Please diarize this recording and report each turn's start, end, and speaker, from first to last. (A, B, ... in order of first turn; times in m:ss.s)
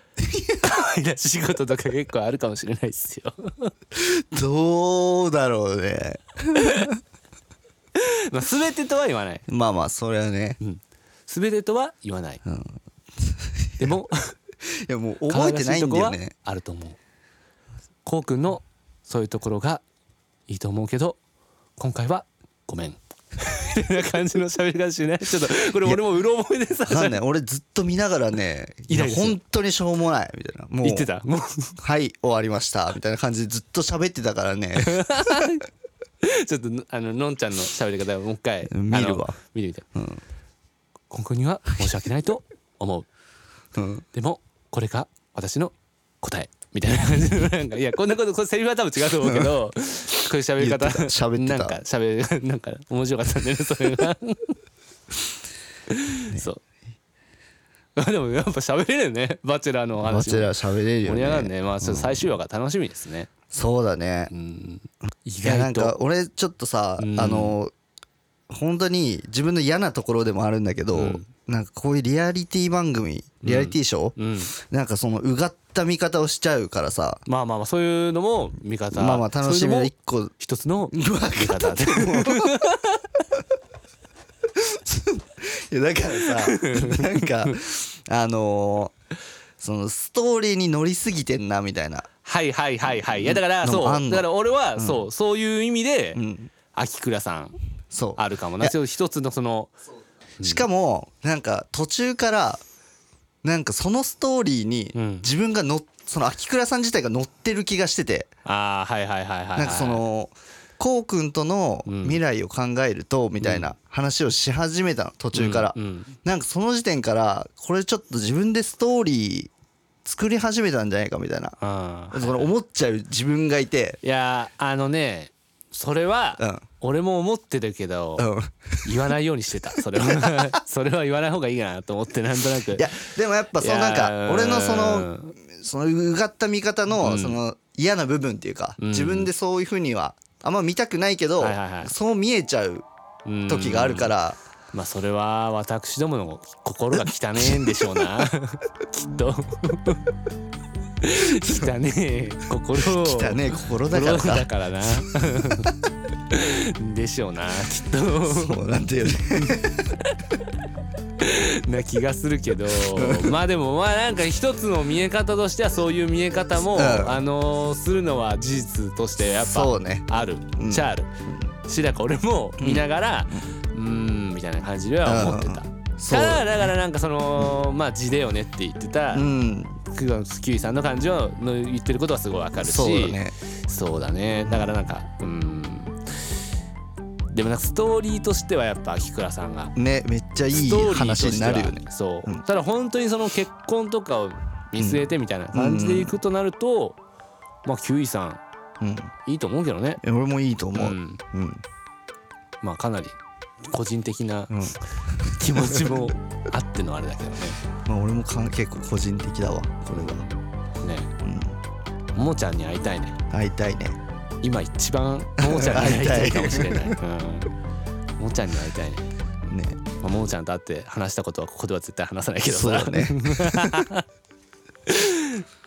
0:00.2-0:00.6 A
0:00.6-0:03.7 B
0:03.9-0:07.0 A
0:06.6-0:06.9 B
0:07.9-0:09.4 B
0:09.5-0:10.6 A
0:10.6-0:12.4 B
0:12.4-0:14.0 A
0:13.8-0:14.3 B
0:14.7-0:16.3 A
0:15.3-0:17.0 B
0:18.0-0:19.8 B
0:20.5-0:21.2 B
0:21.8-0:27.2 B
0:26.9-0:31.1 A
0:28.9-0:29.4 B
0:30.8-0:31.7 B
0:31.8-0:35.5 A
0:34.7-0:35.6 B
0:36.2-0:39.8 B
0:38.7-0:39.4 A
0:39.9-0:40.2 A
0:41.1-0:43.1 B
0:43.7-0:44.0 A
0:44.1-0:54.6 B
0:49.2-0:49.5 A
0:50.6-0:51.8 A
0:55.9-0:56.6 B
0:58.0-1:00.5 B
1:00.0-1:02.2 A
1:01.0-1:03.3 B
1:03.5-1:04.3 A
1:04.3-1:06.0 B
1:05.4-1:07.7 A
1:07.0-1:07.6 B
1:08.5-1:17.2 A
1:10.9-1:11.3 B
1:13.4-1:14.5 B
1:17.3-1:23.0 B
1:18.9-1:20.3 A
1:20.9-1:22.5 A
1:24.6-1:28.9 A
1:26.2-1:27.6 B
1:29.6-1:32.1 A
1:32.2-1:36.2 B
1:33.1-1:35.0 A
1:36.2-1:36.5 A
1:36.7-1:37.6 B
1:37.9-1:38.7 A
1:38.2-1:39.7 B
1:40.4-1:40.6 B
1:40.4-1:42.6 A
1:43.4-1:48.3 A
1:44.9-1:45.3 B
1:48.4-1:50.0 B
1:49.6-1:59.5 A
1:51.8-1:52.2 B
1:53.4-1:53.7 B
1:55.3-1:56.1 B
2:00.0-2:01.6 A
2:01.6-2:02.5 B
2:02.1-2:04.0 A
2:04.0-2:08.3 B
2:08.2-2:09.0 A
2:08.8-2:15.3 B
2:09.7-2:10.6 A
2:12.7-2:22.8 A
2:17.0-2:17.4 B
2:18.8-2:19.3 B
2:21.4-2:21.9 B
2:23.2-2:24.1 B
2:23.5-2:24.4 A
2:24.7-2:30.0 B
2:27.4-2:28.3 A
2:31.0-2:35.7 B
2:31.2-2:31.7 A
2:32.8-2:34.5 A
2:35.0-2:35.6 A
2:36.3-2:38.6 B
2:38.3-2:40.0 A
2:41.2-2:51.1 B
2:42.9-2:43.4 A
2:46.7-2:47.2 A
2:49.4-2:50.0 A
2:50.6-2:51.4 A
2:51.6-2:59.2 B
2:52.6-2:53.4 A
2:55.0-2:56.7 A
2:59.1-2:59.8 A
2:59.9-3:06.0 B
3:02.6-3:03.3 A
3:04.4-3:04.7 A
3:07.3-3:09.7 B
3:09.8-3:12.4 A
3:10.5-3:17.0 B
3:14.8-3:16.2 A
3:17.6-3:18.4 B
3:18.8-3:19.1 A
3:19.2-3:20.0 B
3:20.0-3:21.6 A
3:20.7-3:21.2 B
3:22.6-3:23.2 B
3:23.7-3:24.7 B
3:24.5-3:26.0 A
3:25.3-3:27.6 B
3:27.8-3:30.3 A
3:29.9-3:31.1 B
3:31.2-3:31.6 A
3:32.2-3:33.2 B
3:33.3-3:34.0 A
3:34.4-3:37.5 B
3:35.4-3:37.0 A
3:38.2-3:39.1 B
3:39.5-3:39.8 A
3:40.0-3:44.0 B
3:42.5-3:43.8 A
3:44.8-3:45.4 B